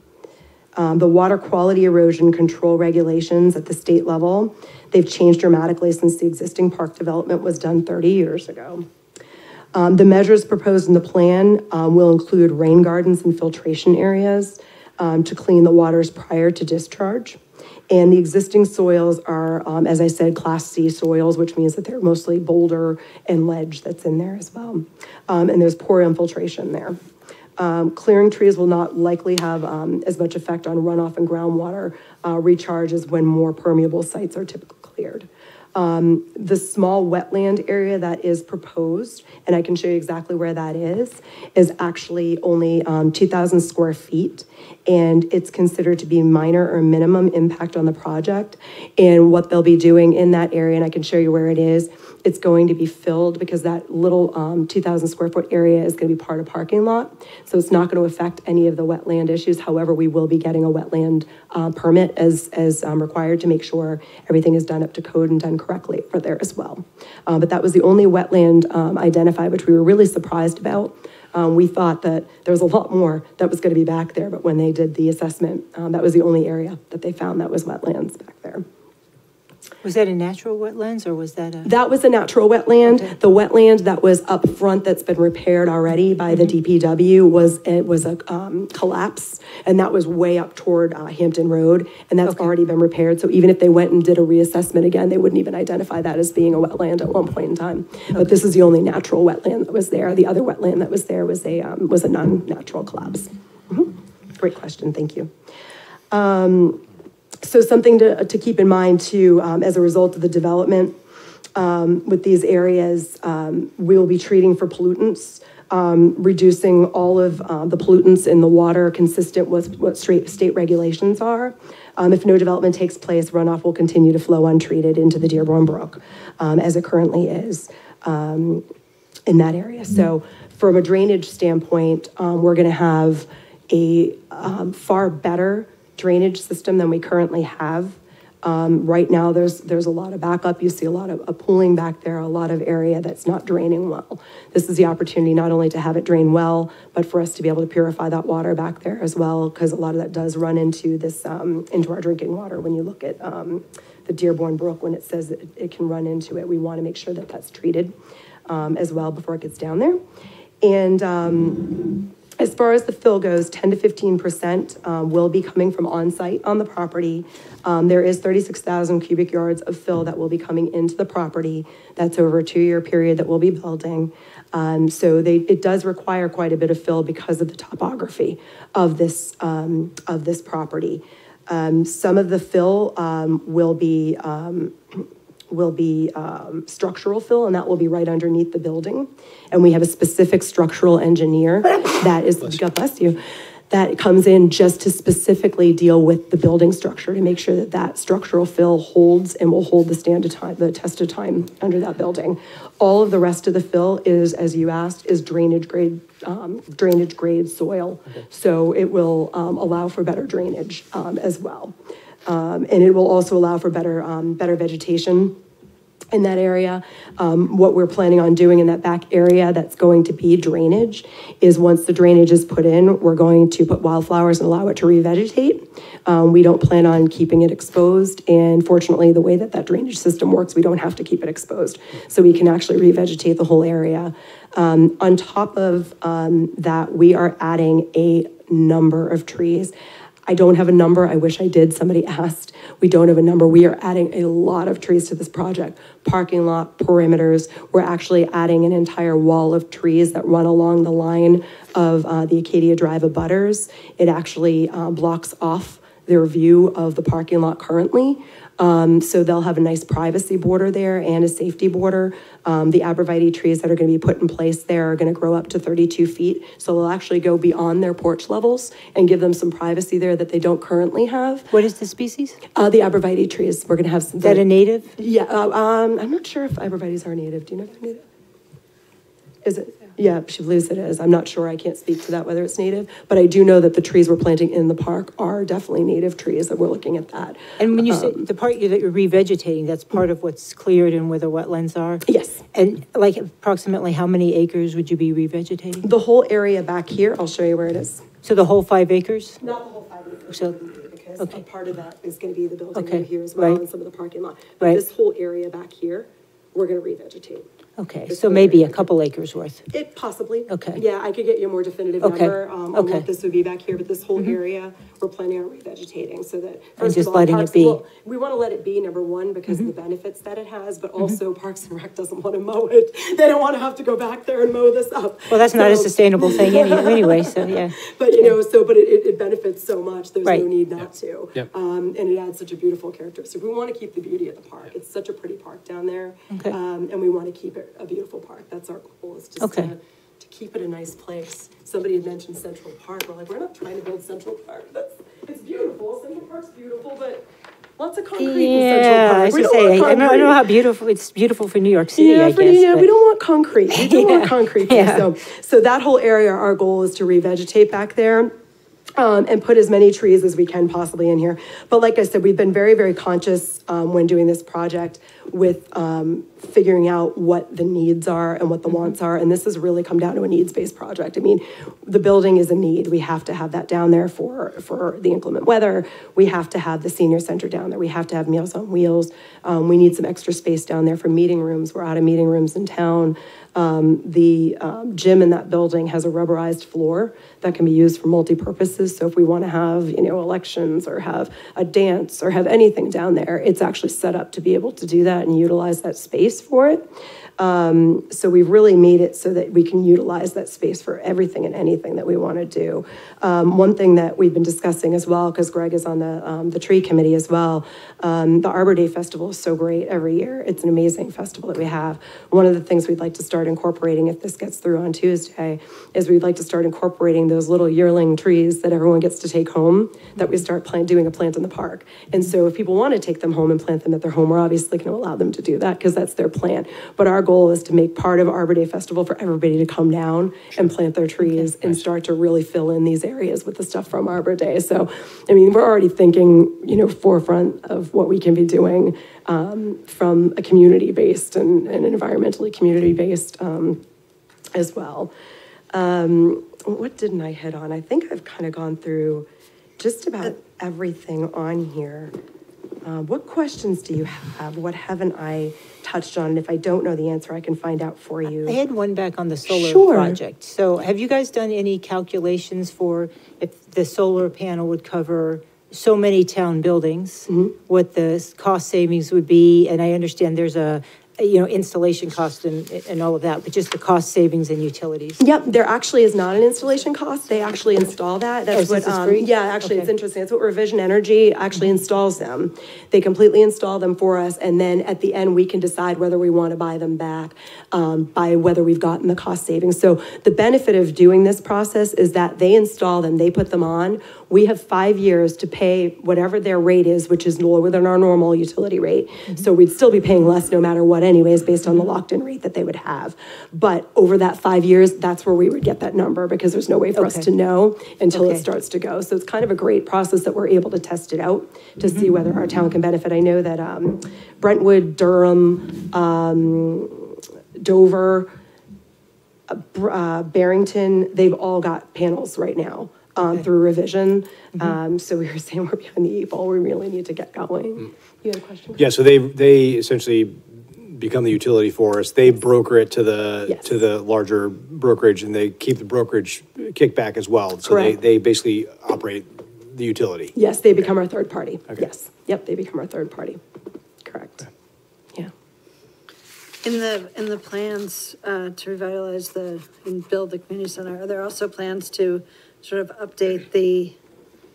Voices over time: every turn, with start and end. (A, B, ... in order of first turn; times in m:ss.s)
0:00.8-0:08.9 A
0:09.7-0:17.4 A
0:17.9-0:27.0 A
0:27.6-1:18.6 A
1:19.8-1:21.7 B
1:21.6-1:45.3 A
1:32.2-1:32.5 B
1:46.1-1:46.8 A
1:47.4-1:51.0 A
1:51.5-2:08.6 A
2:09.3-2:37.9 A
2:38.5-2:40.0 A
2:40.6-3:35.4 A
3:36.1-3:59.7 A
4:00.3-4:31.5 A
4:31.5-4:32.4 B
4:32.5-4:34.4 A
4:34.2-4:34.9 B
4:35.0-4:38.0 A
4:39.4-4:48.2 A
4:47.6-4:55.9 B
4:52.1-4:52.4 A
4:55.8-4:58.0 A
4:58.2-4:59.4 B
4:59.4-5:07.4 A
5:02.7-5:03.6 B
5:07.8-5:09.6 B
5:08.1-5:08.9 A
5:09.7-5:47.2 A
5:10.5-5:10.8 B
5:12.0-5:13.0 B
5:16.8-5:17.8 B
5:25.3-5:28.3 B
5:39.4-5:39.7 B
5:47.8-5:50.4 A
5:48.2-5:52.9 B
5:52.0-5:58.3 A
5:53.7-5:55.0 B
5:59.0-7:23.8 A
7:11.2-7:11.5 B
7:24.5-7:25.1 A
7:25.7-7:29.3 A
7:29.8-7:32.1 A
7:32.8-7:38.6 A
7:38.2-7:55.2 B
7:39.5-7:40.2 A
7:47.3-7:47.5 A
7:55.2-8:38.3 A
7:58.5-7:59.9 B
8:27.0-8:27.3 B
8:28.1-8:28.4 B
8:39.5-8:48.8 A
8:48.8-9:00.9 C
8:53.5-8:53.7 A
8:57.6-8:58.0 A
9:00.3-9:03.4 A
9:04.0-9:04.5 A
9:06.6-9:14.0 D